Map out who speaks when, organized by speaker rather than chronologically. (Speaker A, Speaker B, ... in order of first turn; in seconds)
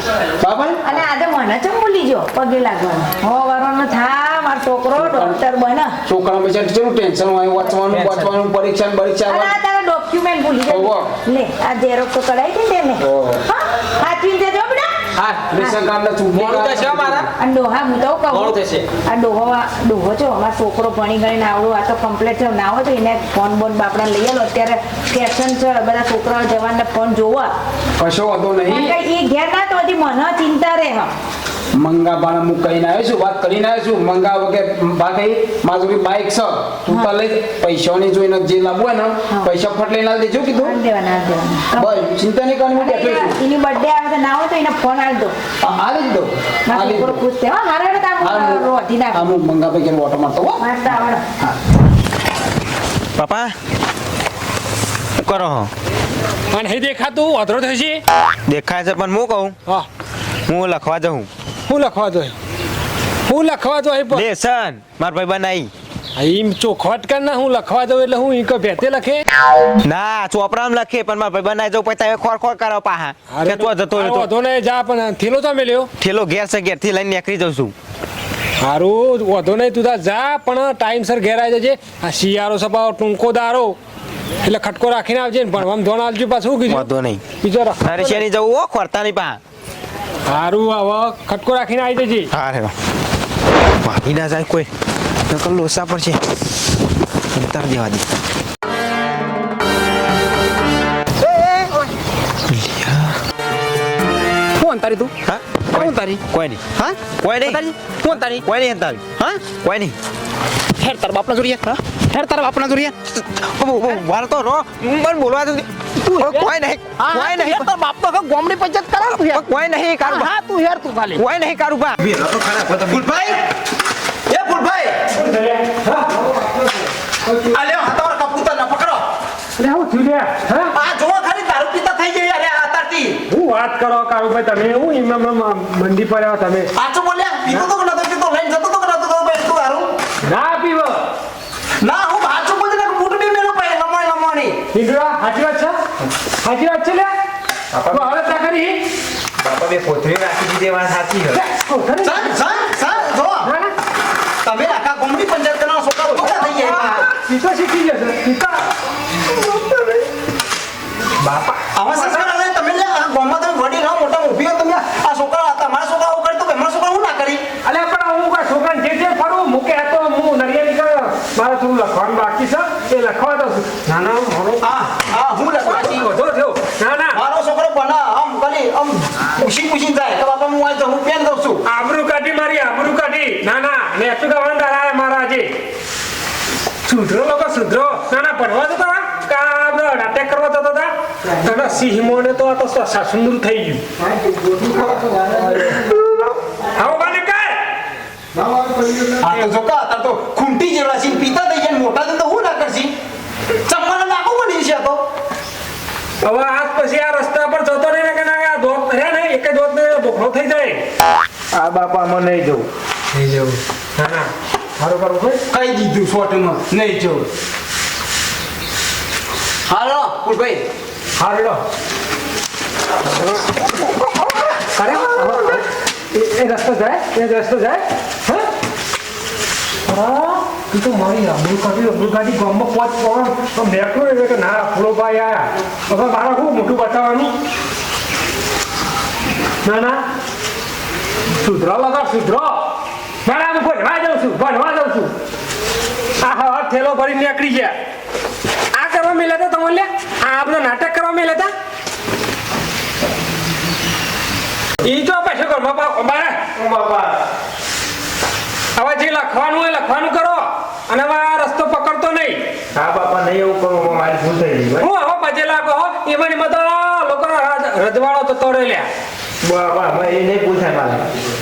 Speaker A: 0.4-0.8, 5.0-5.4, 6.0-9.6, 10.7-11.1, 13.0-13.4, 15.4-17.3, 28.0-28.9, 31.7-40.8, 41.7-43.4, 45.6-47.2, 48.2-50.6, 101.2-101.9, 104.6-105.1, 105.7-106.2, 106.7-108.5, 110.8-113.0, 116.0-119.5, 120.0-121.2, 122.9-123.4, 124.3-125.1, 127.3-129.1, 130.7-133.2, 136.7-139.9, 141.8-144.6, 152.0-153.5, 154.4-157.1, 161.7-167.4, 174.6-176.1, 177.1-181.6, 194.0-196.1, 198.3-202.9, 203.6-205.1, 215.5-217.3, 219.7-220.6
Speaker B: 0.8-6.0, 9.2-14.9, 17.4-27.5, 28.6-31.1, 40.6-41.9, 42.8-45.4, 46.6-49.2, 50.6-51.2
Speaker C: 7.9-8.3, 15.2-15.5, 16.3-17.2, 18.3-18.9
Speaker D: 53.1-53.5, 55.2-55.7, 58.5-59.5, 60.5-61.3, 64.1-65.7, 69.8-74.3, 76.0-77.7, 86.7-87.2, 87.8-89.4, 92.3-92.7, 93.8-94.7, 95.4-96.2, 97.3-98.0, 102.5-103.2, 105.2-106.6, 107.2-107.6, 108.4-110.0, 113.2-115.7, 116.2-117.7, 119.0-120.3, 121.2-123.3, 147.7-148.1, 149.4-151.4, 211.5-212.7, 256.5-257.2, 262.7-264.9, 269.4-271.1
Speaker E: 56.5-58.0, 61.7-62.3, 63.3-64.2, 66.2-69.2, 73.3-75.9, 78.6-83.8, 84.4-86.9, 87.4-88.2, 90.3-92.3, 125.1-126.7, 129.6-130.7, 133.3-136.7, 140.2-141.1, 144.7-145.8, 146.4-147.1, 147.9-148.8, 151.3-152.3, 153.4-153.7, 156.1-158.7, 161.2-162.2, 167.6-174.7, 175.6-177.2, 181.7-185.5, 186.8-193.8, 196.7-197.7, 206.2-210.8, 213.1-215.4, 221.2-221.6, 224.7-228.5, 229.9-237.3, 239.6-240.0, 241.3-245.1, 246.2-247.8, 248.7-251.5, 254.8-256.5, 258.8-262.4, 264.8-268.9